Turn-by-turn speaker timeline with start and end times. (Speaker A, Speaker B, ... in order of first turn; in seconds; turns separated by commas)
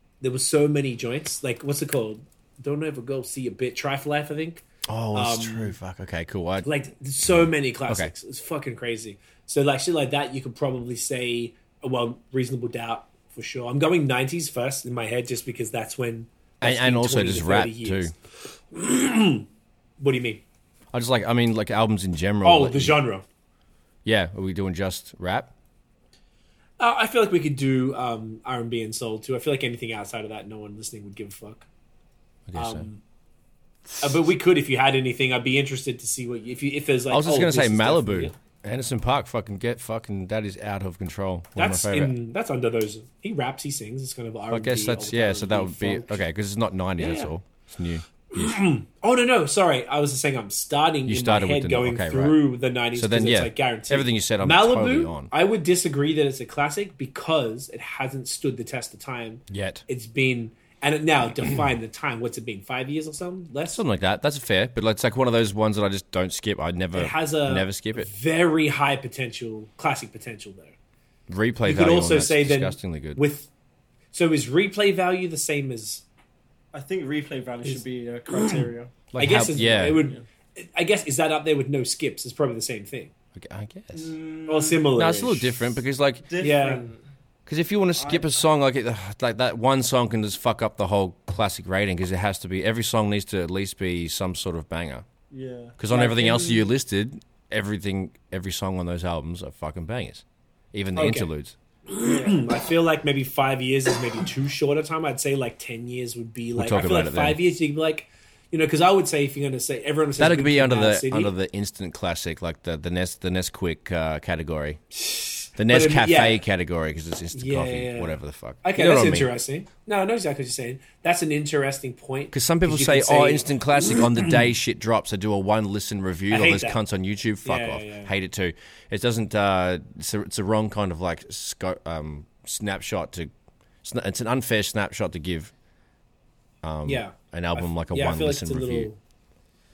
Speaker A: 0.2-5.8, Speaker B: 4.9-6.7, Speaker A: 6.6-19.5, Speaker B: 7.9-8.1, Speaker B: 16.6-18.1, Speaker A: 20.0-20.4, Speaker B: 20.9-23.0, Speaker A: 22.4-23.2, Speaker B: 24.1-25.5, Speaker A: 26.8-31.7, Speaker B: 32.5-32.9, Speaker A: 32.5-33.0, Speaker A: 34.0-38.3, Speaker B: 37.1-42.1, Speaker A: 41.6-46.2, Speaker B: 44.5-48.6, Speaker A: 47.0-47.3, Speaker A: 48.3-63.8, Speaker B: 51.1-52.4, Speaker B: 53.0-55.3, Speaker B: 59.5-59.8, Speaker B: 63.7-68.1, Speaker A: 66.9-70.8, Speaker B: 71.3-73.2, Speaker A: 71.7-73.5, Speaker A: 74.1-76.0, Speaker C: 76.7-78.9, Speaker A: 77.7-83.1, Speaker B: 79.1-80.0, Speaker C: 80.0-80.2, Speaker B: 83.3-84.1, Speaker C: 83.9-84.9, Speaker A: 84.5-85.6, Speaker B: 84.9-86.3, Speaker C: 86.2-87.0, Speaker A: 86.4-86.8, Speaker B: 87.5-95.0, Speaker C: 88.0-88.4, Speaker C: 95.3-96.7, Speaker B: 95.8-101.6, Speaker A: 101.0-101.3, Speaker A: 101.9-111.3, Speaker C: 102.0-102.6, Speaker B: 106.6-107.4, Speaker B: 110.2-114.8, Speaker A: 114.9-116.4, Speaker B: 115.6-119.3, Speaker A: 117.3-124.4, Speaker B: 122.3-133.3, Speaker A: 126.3-126.8, Speaker A: 127.4-128.1, Speaker B: 133.8-135.5, Speaker B: 136.6-138.9, Speaker A: 136.8-139.0